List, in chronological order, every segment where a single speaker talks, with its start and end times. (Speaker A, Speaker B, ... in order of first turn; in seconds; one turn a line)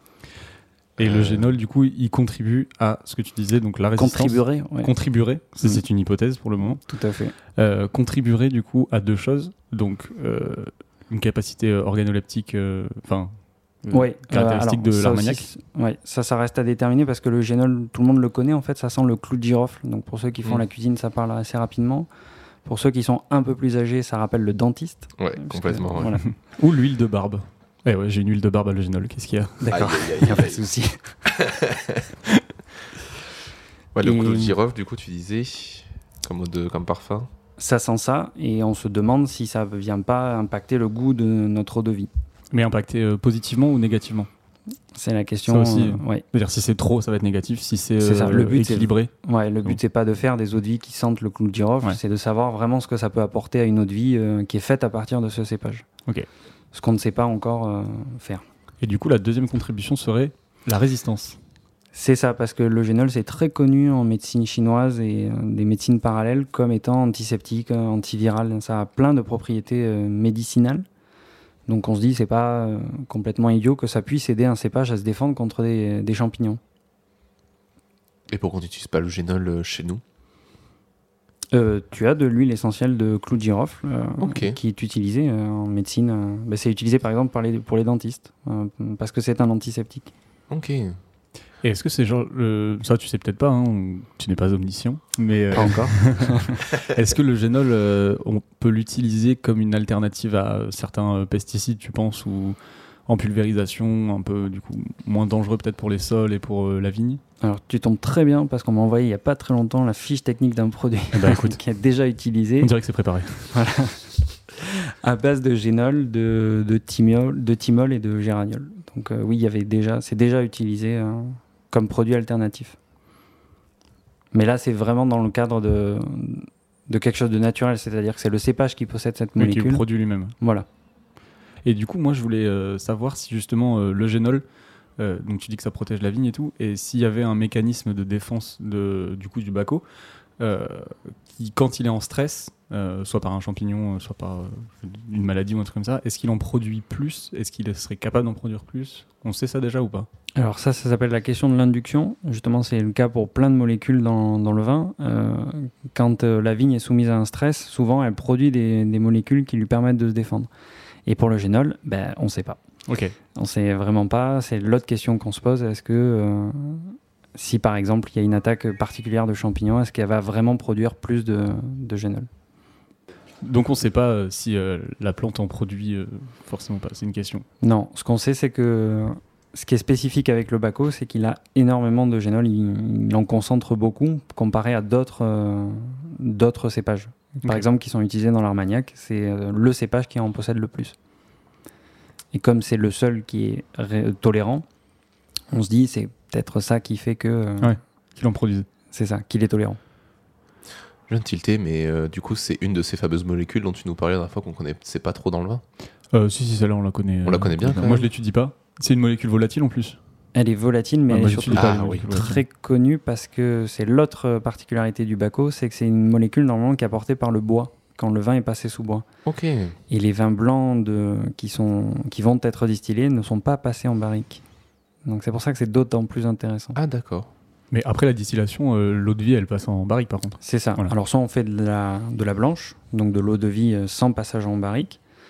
Speaker A: 1.0-6.8
Speaker B: 1.0-1.5
Speaker C: 4.0-4.9
Speaker C: 6.9-7.3
Speaker A: 7.5-13.3
Speaker A: 13.8-15.4
Speaker C: 13.9-22.1
Speaker C: 22.7-26.2
Speaker B: 25.2-26.2
Speaker A: 26.1-29.7
Speaker C: 29.6-31.0
Speaker B: 29.7-30.6
Speaker B: 31.3-32.1
Speaker B: 33.9-37.3
Speaker C: 34.0-34.5
Speaker C: 37.6-42.1
Speaker A: 42.5-44.3
Speaker C: 44.9-46.2
Speaker A: 45.5-49.1
Speaker C: 48.0-55.9
Speaker C: 56.7-58.4
Speaker A: 58.8-61.4
Speaker C: 61.9-70.9
Speaker C: 71.7-76.6
Speaker B: 78.3-80.0
Speaker C: 81.5-90.1
Speaker B: 84.2-84.6
Speaker B: 90.5-91.0
Speaker A: 91.6-102.6
Speaker C: 95.5-96.6
Speaker A: 103.1-107.2
Speaker C: 107.4-112.7
Speaker A: 111.1-111.6
Speaker A: 112.6-113.5
Speaker C: 113.5-122.8
Speaker C: 124.3-129.8
Speaker A: 129.4-130.3
Speaker C: 130.4-130.7
Speaker A: 131.6-134.4
Speaker A: 135.0-139.8
Speaker A: 140.4-150.1
Speaker C: 150.4-160.5
Speaker C: 161.1-162.6
Speaker A: 162.9-163.1
Speaker C: 163.3-172.3
Speaker A: 173.4-177.4
Speaker C: 177.6-191.0
Speaker C: 192.3-194.7
Speaker C: 195.5-197.8
Speaker A: 197.6-198.7
Speaker C: 198.9-199.8
Speaker B: 201.1-205.6
Speaker A: 206.1-210.0
Speaker B: 207.2-208.1
Speaker C: 210.3-219.1
Speaker A: 211.1-212.4
Speaker B: 211.5-212.1
Speaker B: 219.2-219.8
Speaker C: 219.9-224.4
Speaker C: 225.1-226.8
Speaker B: 226.8-227.3
Speaker A: 227.7-230.9
Speaker C: 230.4-235.0